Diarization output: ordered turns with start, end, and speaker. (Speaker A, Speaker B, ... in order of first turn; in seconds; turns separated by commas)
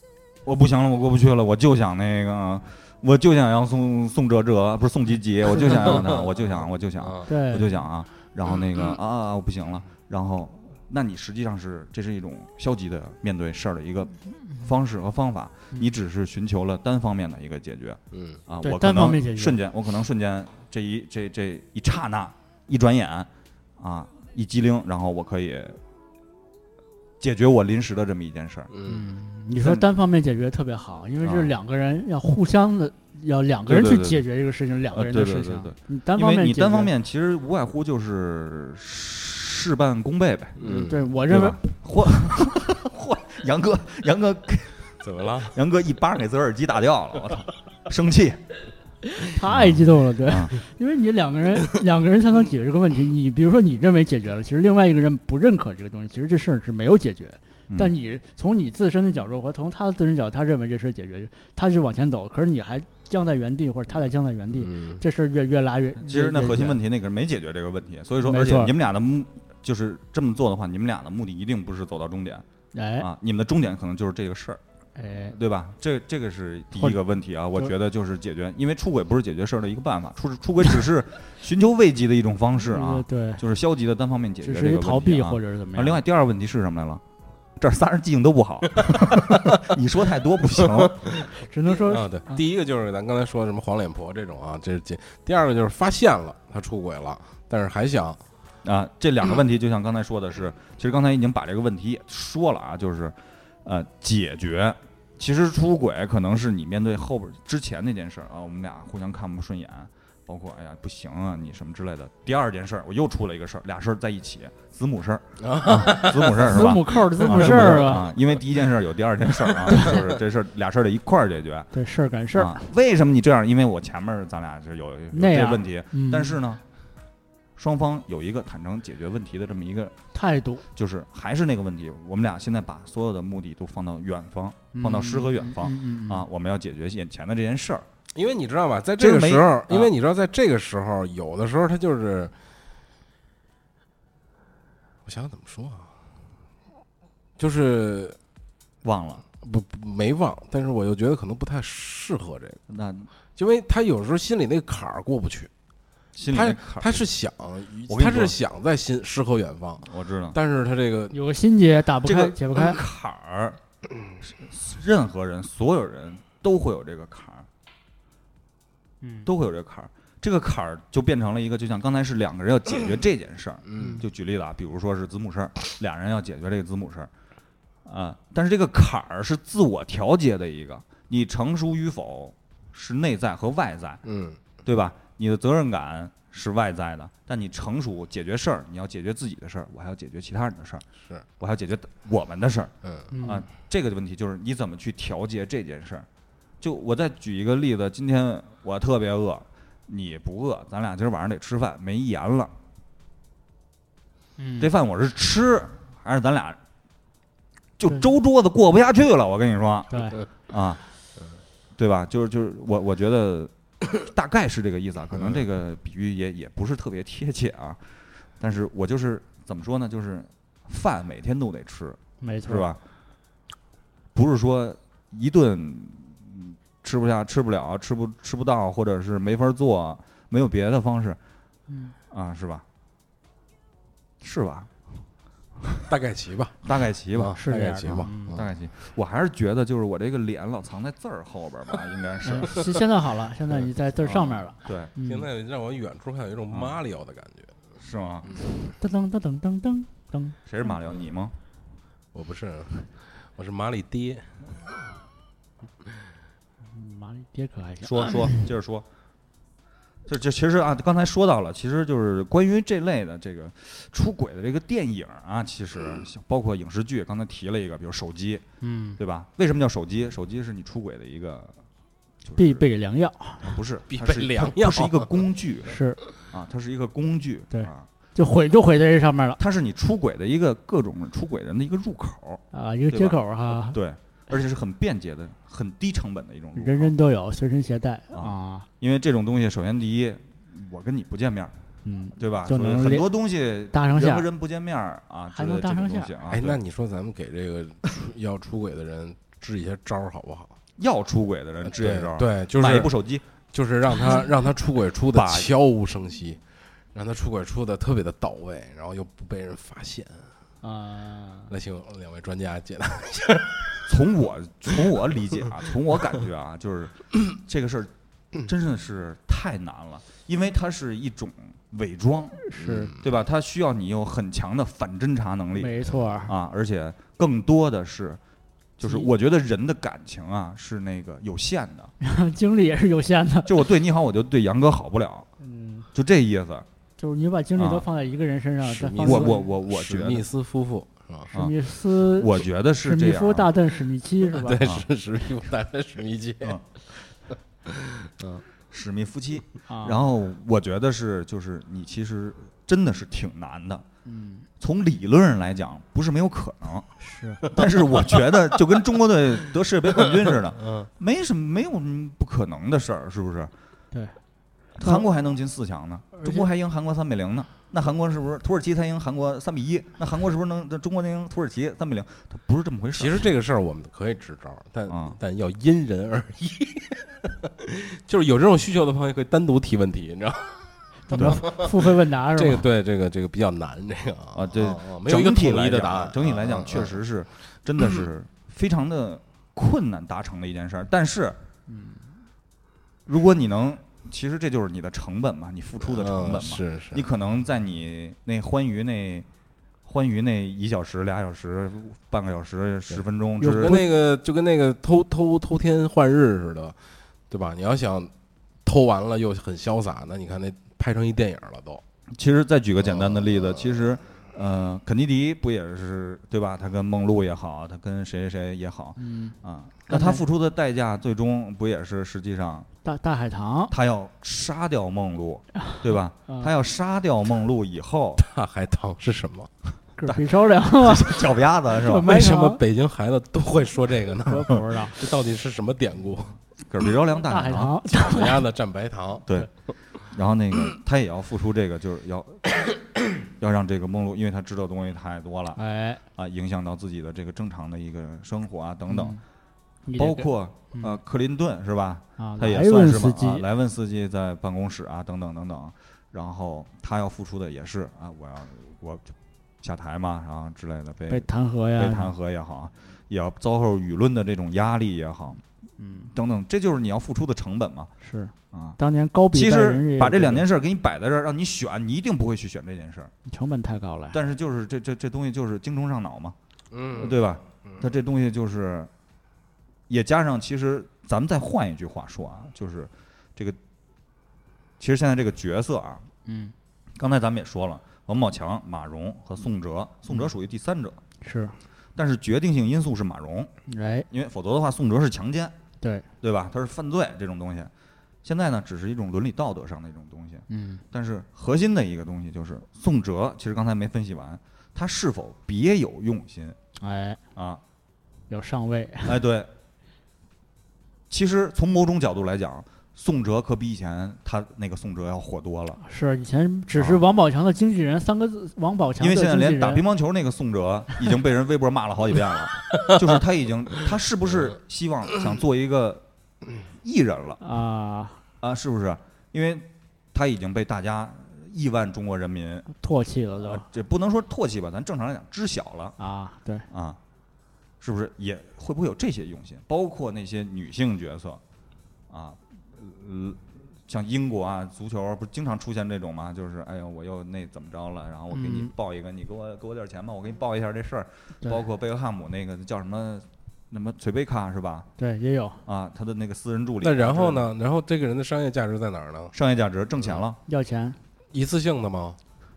Speaker A: 0.4-25.8, Speaker B: 5.6-5.8, Speaker C: 5.7-6.3, Speaker C: 7.0-7.3, Speaker B: 7.3-7.7, Speaker C: 18.1-18.4, Speaker B: 18.6-19.6, Speaker A: 27.2-28.7, Speaker C: 28.7-29.0, Speaker B: 28.9-36.9, Speaker A: 31.2-31.5, Speaker A: 33.7-34.2, Speaker A: 34.9-40.6, Speaker C: 40.6-41.0, Speaker B: 40.6-41.6, Speaker A: 41.3-48.4, Speaker C: 45.0-45.5, Speaker B: 49.2-66.8, Speaker A: 49.4-50.5, Speaker C: 64.6-65.0, Speaker A: 66.0-72.4, Speaker B: 68.2-68.7, Speaker B: 72.7-73.1, Speaker A: 73.0-74.6, Speaker B: 75.0-75.3, Speaker A: 75.3-87.0, Speaker B: 82.7-83.4, Speaker B: 84.4-86.0, Speaker A: 87.6-91.1, Speaker C: 90.6-98.2, Speaker B: 91.4-92.4, Speaker A: 98.6-121.7, Speaker C: 115.4-116.7, Speaker B: 116.3-118.0, Speaker C: 117.2-117.8, Speaker B: 121.7-122.6, Speaker A: 122.3-126.6, Speaker B: 125.1-126.4, Speaker A: 127.6-129.9, Speaker B: 130.1-130.6, Speaker A: 130.7-137.8, Speaker B: 134.7-136.2, Speaker C: 138.1-142.3, Speaker A: 139.0-139.9, Speaker C: 145.1-145.9, Speaker C: 147.4-148.2, Speaker A: 148.8-149.2, Speaker C: 149.4-152.6, Speaker A: 152.7-153.1, Speaker C: 153.3-155.5, Speaker A: 156.2-157.1, Speaker C: 156.3-161.2, Speaker A: 157.9-158.3, Speaker A: 159.8-160.4, Speaker B: 161.1-162.8, Speaker A: 162.0-163.6, Speaker A: 164.2-167.5, Speaker B: 169.0-169.3, Speaker A: 169.2-177.1, Speaker C: 173.7-174.0, Speaker B: 173.8-174.0, Speaker A: 177.8-184.0, Speaker C: 184.0-184.4, Speaker A: 184.6-190.8, Speaker A: 191.4-192.7, Speaker C: 192.8-193.1, Speaker B: 193.1-193.4, Speaker A: 193.2-196.1, Speaker A: 196.6-202.5, Speaker B: 204.4-204.7, Speaker A: 204.6-206.6, Speaker A: 207.8-210.8, Speaker B: 209.9-210.2, Speaker A: 211.8-217.8, Speaker C: 215.1-215.4, Speaker A: 218.4-222.8, Speaker B: 222.2-222.7, Speaker A: 224.1-231.2, Speaker B: 231.7-231.9, Speaker A: 232.1-232.6, Speaker A: 234.2-234.7, Speaker C: 235.9-238.5, Speaker A: 236.6-237.4, Speaker B: 237.4-238.4, Speaker A: 238.3-242.7, Speaker B: 242.2-245.3, Speaker A: 244.6-244.9, Speaker C: 245.0-247.6, Speaker A: 246.5-246.8, Speaker A: 247.8-248.4, Speaker B: 248.8-250.4, Speaker A: 250.4-251.3, Speaker C: 252.1-254.4, Speaker B: 256.6-258.4, Speaker A: 257.8-258.9, Speaker A: 260.1-268.4, Speaker B: 268.6-269.0, Speaker A: 269.0-271.5, Speaker A: 272.2-272.6, Speaker B: 272.4-273.5, Speaker A: 273.4-277.9, Speaker C: 273.9-275.1, Speaker B: 275.7-276.0, Speaker B: 277.5-279.4, Speaker A: 279.4-286.9, Speaker B: 282.5-283.8, Speaker B: 286.6-288.7, Speaker A: 288.1-291.5, Speaker B: 291.8-293.1, Speaker A: 292.2-296.6, Speaker B: 293.7-294.2, Speaker B: 295.3-296.1, Speaker C: 296.3-300.5, Speaker A: 300.8-303.2, Speaker C: 301.6-302.9, Speaker C: 303.5-306.4, Speaker A: 305.1-305.5, Speaker C: 306.9-310.3, Speaker B: 310.6-311.5, Speaker C: 311.5-313.9, Speaker A: 313.9-322.4, Speaker B: 322.4-322.9, Speaker C: 322.6-323.1, Speaker A: 323.0-328.2, Speaker B: 325.6-326.3, Speaker A: 328.8-331.9, Speaker B: 328.8-329.1, Speaker B: 332.0-333.6, Speaker A: 333.4-335.3, Speaker B: 335.4-335.9, Speaker A: 335.9-336.6, Speaker B: 337.0-339.4, Speaker A: 337.6-337.8, Speaker C: 338.6-341.3, Speaker A: 339.0-340.3, Speaker A: 341.3-343.5, Speaker B: 341.3-344.6, Speaker C: 344.3-346.6, Speaker C: 347.6-348.4, Speaker A: 348.7-353.8, Speaker B: 349.7-350.0, Speaker B: 354.1-354.5, Speaker A: 354.6-356.9, Speaker B: 357.0-357.4, Speaker A: 357.4-363.5, Speaker B: 363.9-364.2, Speaker A: 364.8-373.2, Speaker B: 366.2-366.5, Speaker C: 372.9-387.0, Speaker A: 374.9-375.2, Speaker B: 381.1-382.6, Speaker A: 381.1-381.4, Speaker A: 384.3-391.4, Speaker B: 391.7-392.1, Speaker A: 393.1-399.2, Speaker C: 395.8-397.0, Speaker A: 399.9-403.8, Speaker C: 402.9-406.8, Speaker C: 407.3-408.1, Speaker C: 408.6-411.8, Speaker A: 412.1-422.7, Speaker C: 412.8-413.8, Speaker B: 419.0-419.4, Speaker B: 419.9-420.2, Speaker B: 422.8-423.7, Speaker A: 423.7-428.2, Speaker B: 425.6-426.5, Speaker C: 428.2-429.5, Speaker B: 430.0-432.6, Speaker A: 430.0-432.1, Speaker C: 432.0-436.3, Speaker B: 434.2-435.1, Speaker A: 436.7-437.8, Speaker B: 437.3-438.4, Speaker C: 437.9-439.3, Speaker A: 439.3-445.6, Speaker B: 445.6-446.0, Speaker A: 446.1-449.2, Speaker B: 448.9-449.2, Speaker B: 449.9-451.0, Speaker A: 450.0-459.1, Speaker B: 452.2-453.4, Speaker A: 459.6-465.4, Speaker B: 461.1-462.1, Speaker B: 465.8-466.1, Speaker A: 466.1-467.9, Speaker B: 468.0-470.4, Speaker A: 468.5-468.8, Speaker A: 469.3-473.1, Speaker B: 473.3-474.2, Speaker A: 474.1-476.4, Speaker C: 476.7-477.9, Speaker A: 476.9-478.9, Speaker A: 479.9-483.6, Speaker A: 484.8-486.0, Speaker B: 486.2-486.5, Speaker A: 487.0-491.0, Speaker B: 491.2-491.6, Speaker A: 491.9-493.5, Speaker B: 493.7-494.1, Speaker A: 494.1-495.5, Speaker A: 496.2-497.7, Speaker A: 498.2-506.6, Speaker B: 500.5-500.8, Speaker B: 506.8-507.2, Speaker A: 507.3-507.6, Speaker B: 508.3-509.2, Speaker A: 509.0-509.5, Speaker A: 511.1-515.8, Speaker B: 515.8-519.8, Speaker A: 516.7-517.0, Speaker A: 519.0-526.0, Speaker A: 526.8-527.4, Speaker B: 527.4-528.2, Speaker A: 528.4-532.7, Speaker B: 532.7-533.6, Speaker A: 533.4-536.0, Speaker B: 536.0-536.6, Speaker A: 536.7-537.0, Speaker A: 537.8-541.4, Speaker A: 542.1-554.9, Speaker B: 548.3-548.7, Speaker B: 555.0-555.6, Speaker A: 555.6-557.5, Speaker C: 556.8-559.3, Speaker A: 559.3-560.4, Speaker B: 560.5-561.0, Speaker C: 561.3-562.2